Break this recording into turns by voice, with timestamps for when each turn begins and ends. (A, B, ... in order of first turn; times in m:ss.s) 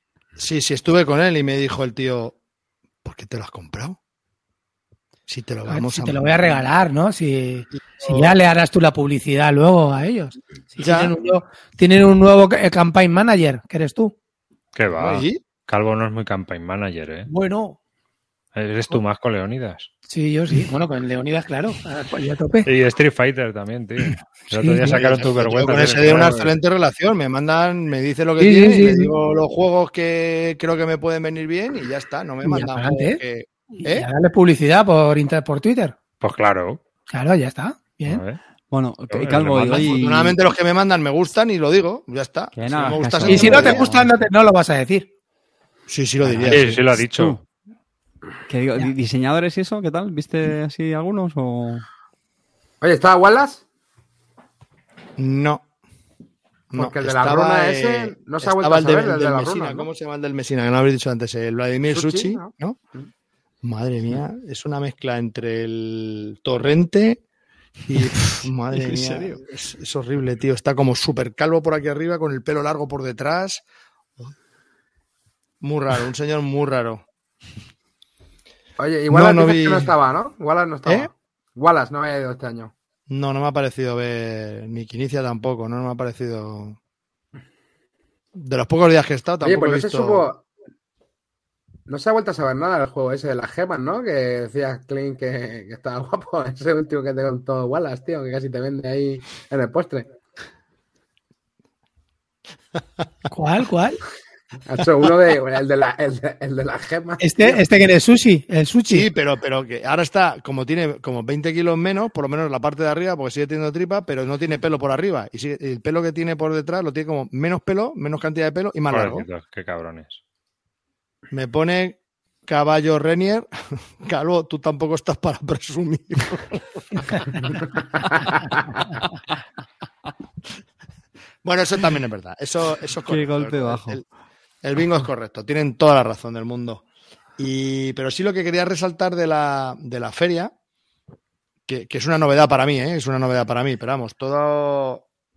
0:00.4-0:02.4 A
0:03.0-0:04.0 A
0:05.3-0:06.6 A
0:05.7-0:14.1 B
0:07.8-0:08.4 A
0:10.8-0:11.2 A
0:14.8-0:17.3 C
0:14.9-0:15.4 A
0:17.3-0:17.8 B
0:18.6-0:19.9 C
0:20.1-0:22.7 B
0:22.6-0:26.5 C
0:24.6-0:25.1 B
0:24.8-0:34.1 A
0:26.1-0:26.4 D
0:28.4-0:29.1 B
0:32.4-0:33.2 B
0:33.8-0:36.0 B
0:36.2-0:36.8 C
0:37.1-0:38.2 B
0:38.0-0:38.4 C
0:38.7-0:40.4 E
0:39.1-0:40.0 C
0:39.6-0:43.9 A
0:42.5-0:44.1 E
0:43.2-0:45.1 B
0:45.9-0:46.8 A
0:46.2-0:47.4 E
0:46.5-0:47.4 C
0:48.5-0:51.8 E
0:52.8-0:53.6 D
0:55.2-0:55.6 A
0:56.7-1:02.8 A
0:56.8-0:59.9 D
1:01.9-1:02.5 D
1:03.6-1:07.2 A
1:07.9-1:13.6 A
1:08.0-1:09.4 E
1:15.6-1:17.0 A
1:18.8-1:22.7 D
1:19.1-1:19.9 A
1:23.1-1:26.8 A
1:28.4-1:30.3 A
1:29.4-1:30.4 D
1:31.9-1:40.1 D
1:43.3-1:44.0 B
1:44.7-1:47.6 D
1:47.2-1:49.1 B
1:48.9-1:59.3 A
1:58.9-2:00.2 C
2:01.3-2:06.6 A
2:11.4-2:14.0 A
2:13.1-2:14.0 E
2:14.6-2:16.8 A
2:17.4-2:20.5 A
2:21.7-2:25.0 A